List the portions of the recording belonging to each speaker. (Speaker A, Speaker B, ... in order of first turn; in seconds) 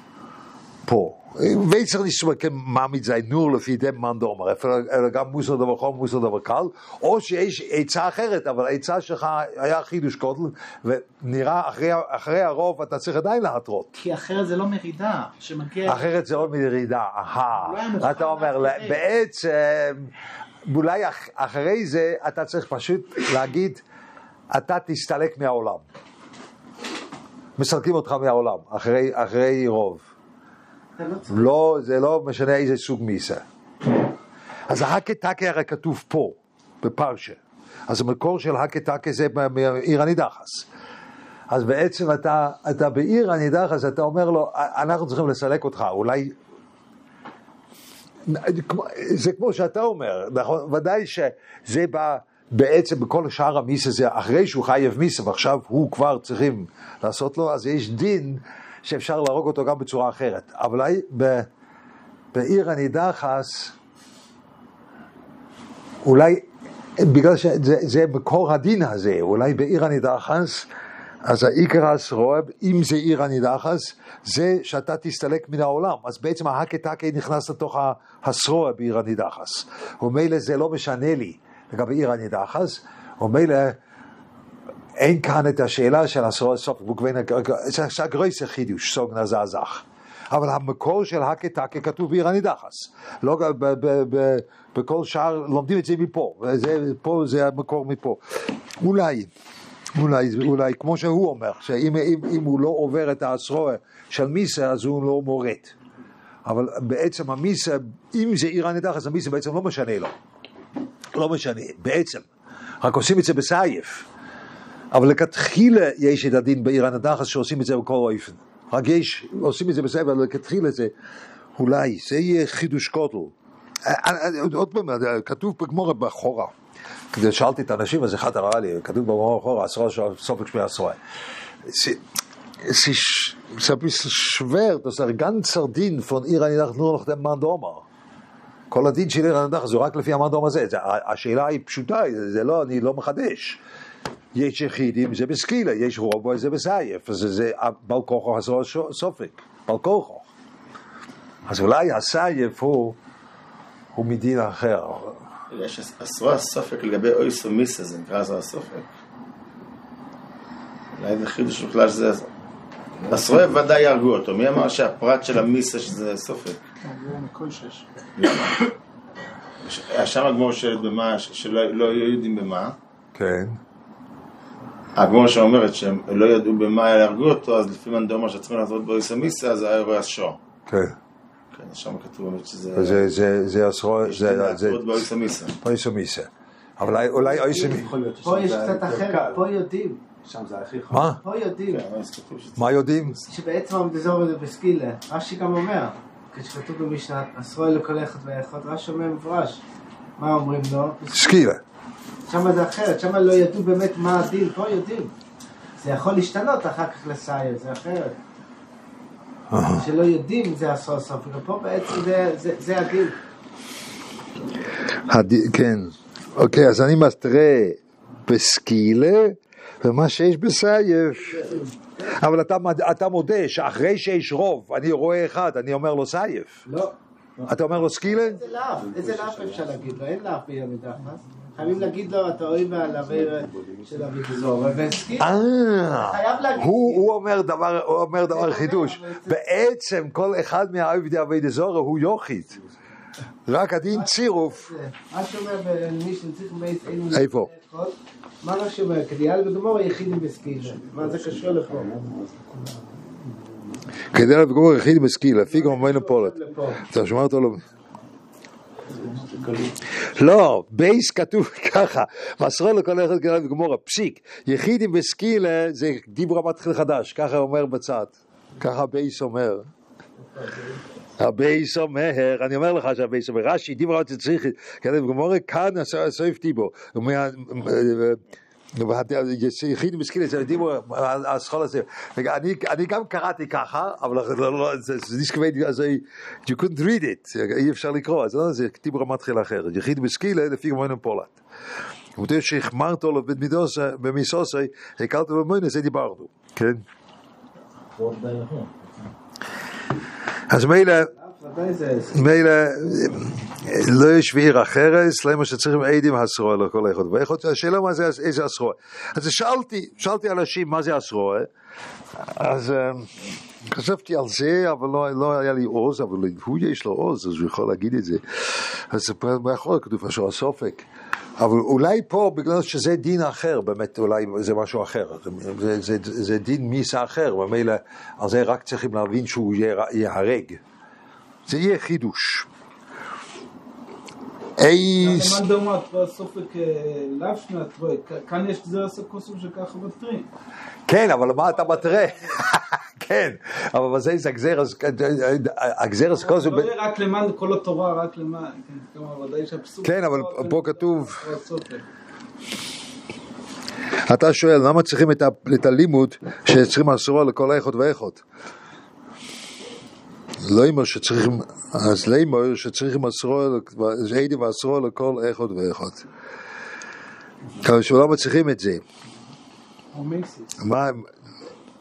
Speaker A: 0.9-13.9, 15.8-20.1, 20.7-23.8, 24.5-25.8, 27.6-30.1, 31.3-33.4, 34.7-40.7, 41.5-46.3, 48.3-61.5, 62.3-63.8, 66.0-66.4, 67.0-70.7, 71.2-83.8, 85.0-98.2, 98.8-99.3, 100.0-105.8, 106.5-110.1, 111.2-112.3, 112.8-114.1, 114.9-120.9, 121.6-123.3, 123.8-126.5, 127.1-131.0, 131.7-132.0, 132.6-137.8, 138.7-143.6, 144.3-150.3, 151.5-153.0, 153.9-155.2, 173.2-173.6, 180.7-181.0, 182.8-185.0, 185.6-187.9, 190.9-191.2, 192.6-193.2, 201.1-201.6, 209.5-209.8, 215.1-226.6, 227.5-228.4, 235.2-242.6, 243.5-244.7, 247.1-247.5, 254.1-257.6, 260.1-269.7, 271.2-278.2, 278.8-291.4, 292.2-296.8, 300.5-301.1, 302.1-311.5, 312.2-320.9, 321.4-330.6, 331.5-332.5, 334.6-335.4, 340.9-346.7, 349.8-351.2, 354.1-358.2, 360.4-366.1, 367.6-368.8, 370.6-371.1
Speaker B: 13.9-16.1, 17.6-19.0, 166.8-167.9, 369.9-370.6
Speaker C: 31.0-31.5, 188.2-190.1, 191.1-191.8, 193.3-199.6, 200.2-201.4, 202.3-205.1, 205.8-208.2, 209.7-213.2, 221.1-222.1, 226.7-226.9, 228.2-235.3, 235.8-237.1, 238.2-239.4, 243.9-251.9, 255.4-256.9, 301.1-302.3
Speaker D: 155.5-158.9, 161.0-162.3, 163.1-166.6, 168.2-168.6, 169.6-172.8, 175.0-180.4, 181.5-183.1, 184.0-185.6, 191.7-193.2
Speaker E: 186.8-189.5, 190.2-191.1, 227.4-230.0, 231.3-234.2, 250.4-253.6, 258.9-259.8, 297.9-298.9
Speaker F: 335.0-340.3, 341.5-342.4, 346.2-351.8